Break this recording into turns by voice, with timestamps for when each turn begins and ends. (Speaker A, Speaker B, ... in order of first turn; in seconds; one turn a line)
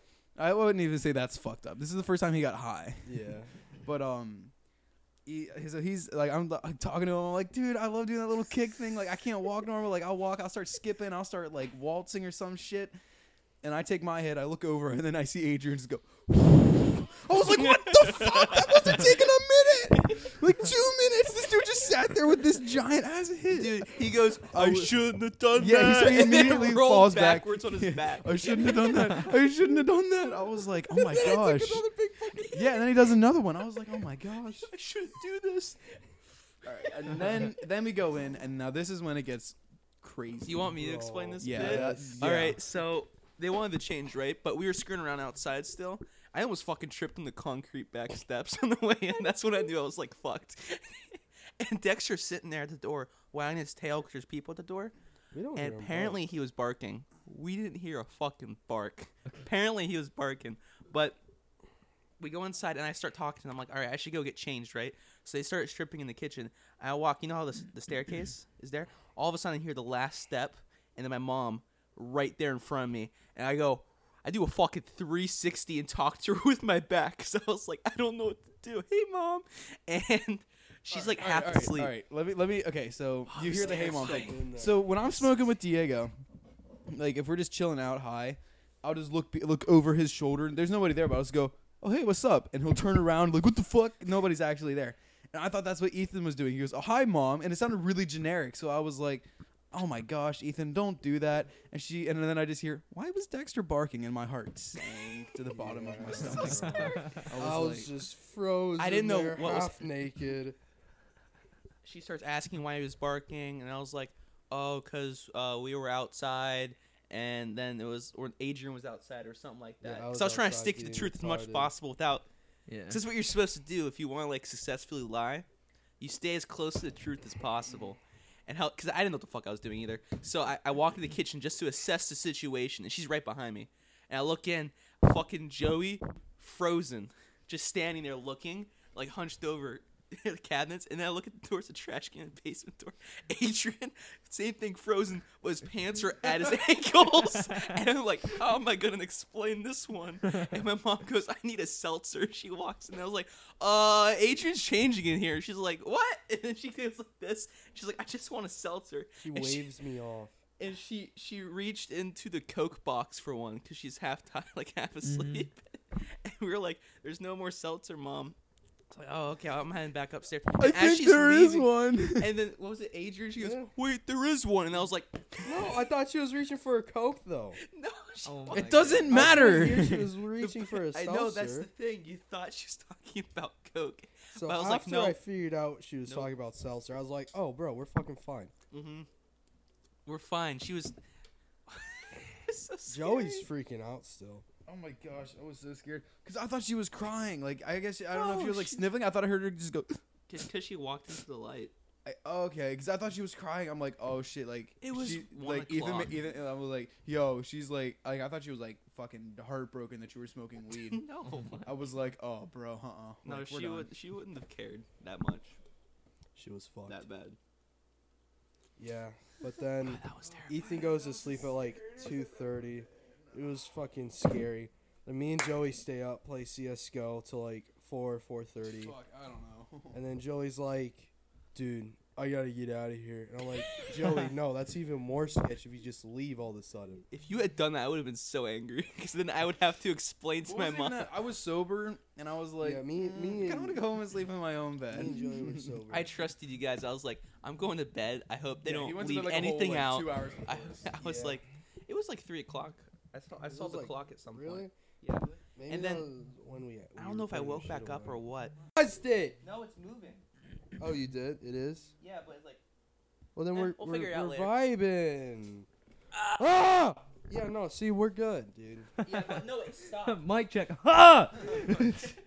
Speaker A: 0.3-3.1
Speaker B: 3.0-3.5
Speaker A: 3.8-4.5
Speaker A: 5.2-13.0
Speaker A: 13.6-25.0
Speaker C: 17.4-19.2
Speaker C: 23.5-29.3
Speaker A: 25.5-31.9
Speaker C: 30.9-32.9
Speaker A: 32.5-34.7
Speaker C: 34.6-36.0
Speaker A: 36.6-40.7
Speaker C: 40.5-54.9
Speaker B: 40.7-42.2
Speaker A: 41.4-42.6
Speaker B: 55.3-56.2
Speaker C: 55.5-61.2
Speaker C: 62.2-81.9
Speaker A: 80.9-86.1
Speaker C: 83.3-84.4
Speaker B: 83.5-85.0
Speaker A: 86.9-107.9
Speaker B: 105.5-110.6
Speaker D: 106.5-107.1
Speaker C: 108.8-109.7
Speaker C: 111.8-122.3
Speaker B: 119.8-121.7
Speaker D: 122.7-123.0
Speaker C: 122.9-125.5
Speaker C: 126.0-159.7
Speaker B: 159.2-160.3
Speaker C: 160.6-168.3
Speaker D: 165.0-165.5
Speaker C: 168.9-175.7
Speaker A: 170.6-172.3
Speaker B: 173.4-173.7
Speaker B: 175.4-177.6
Speaker C: 177.6-179.7
Speaker D: 178.2-179.3
Speaker A: 178.5-180.1
Speaker B: 179.1-181.7
Speaker C: 180.4-185.2
Speaker B: 184.3-188.5
Speaker C: 188.7-189.1
Speaker C: 190.0-190.9
Speaker C: 191.7-193.4
Speaker B: 192.9-194.4
Speaker A: 194.7-200.0
Speaker C: 198.1-198.9
Speaker C: 200.3-201.7
Speaker A: 202.0-211.0
Speaker C: 204.8-206.2
Speaker C: 210.7-211.7
Speaker D: 211.2-211.6
Speaker A: 211.6-213.9
Speaker C: 213.2-215.6
Speaker B: 216.3-217.0
Speaker C: 216.9-217.4
Speaker B: 218.8-228.9
Speaker C: 219.8-220.7
Speaker A: 220.3-223.6
Speaker A: 228.7-230.0
Speaker B: 229.9-237.0
Speaker C: 237.1-241.1
Speaker A: 240.4-245.8
Speaker B: 242.6-243.8
Speaker B: 244.9-246.1
Speaker C: 245.9-256.1
Speaker A: 248.6-250.9
Speaker B: 250.9-251.4
Speaker B: 253.5-254.7
Speaker B: 255.6-258.2
Speaker C: 257.0-258.5
Speaker B: 258.7-259.4
Speaker C: 259.4-260.2
Speaker B: 260.8-261.9
Speaker C: 262.0-262.6
Speaker B: 263.4-265.7
Speaker C: 263.5-264.6
Speaker B: 266.3-269.0
Speaker C: 269.0-270.3
Speaker D: 269.1-272.1
Speaker C: 271.4-272.1